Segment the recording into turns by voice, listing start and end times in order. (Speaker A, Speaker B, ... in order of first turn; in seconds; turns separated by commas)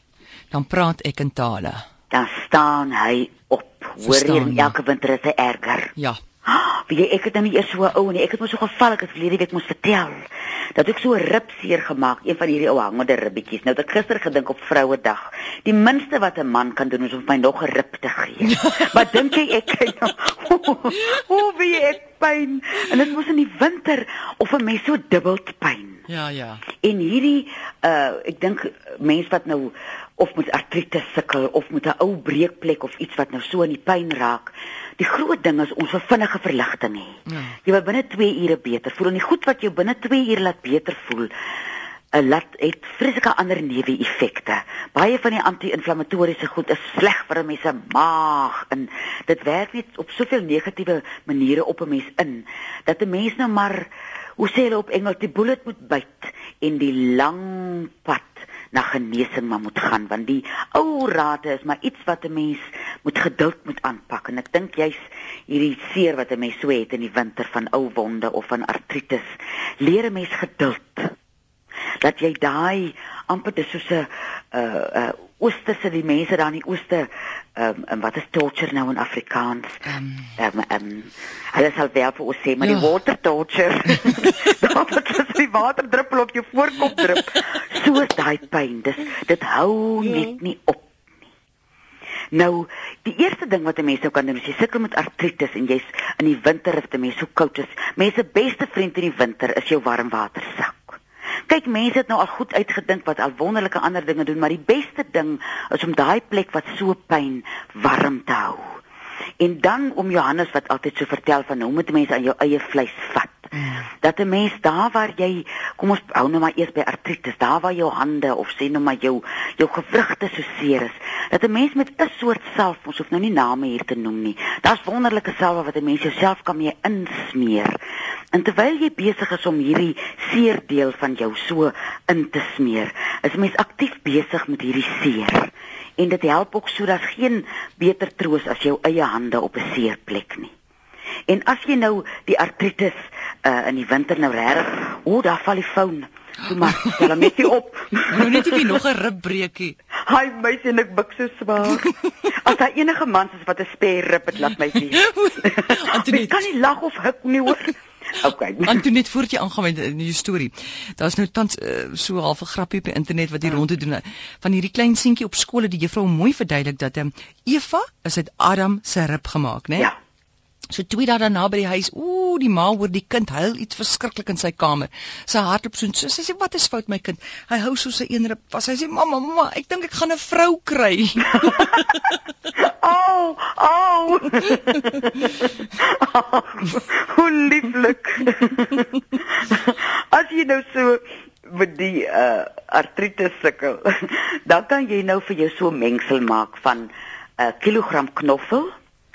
Speaker A: 0.5-1.8, Speaker B: 2.1-5.9, Speaker A: 4.0-4.7, Speaker B: 6.5-26.1, Speaker A: 26.1-26.6, Speaker B: 26.8-41.3, Speaker A: 37.3-37.6, Speaker B: 42.1-69.2, Speaker B: 69.8-71.1, Speaker B: 72.0-79.8, Speaker A: 79.9-80.3, Speaker B: 80.4-91.0, Speaker B: 92.3-108.8, Speaker B: 109.4-127.8, Speaker A: 113.6-113.8, Speaker B: 128.3-140.5, Speaker B: 141.3-148.8, Speaker A: 146.7-147.0, Speaker A: 148.1-149.8, Speaker B: 150.1-158.8, Speaker A: 154.9-156.4, Speaker A: 158.6-169.9, Speaker A: 170.7-182.0, Speaker B: 182.6-198.7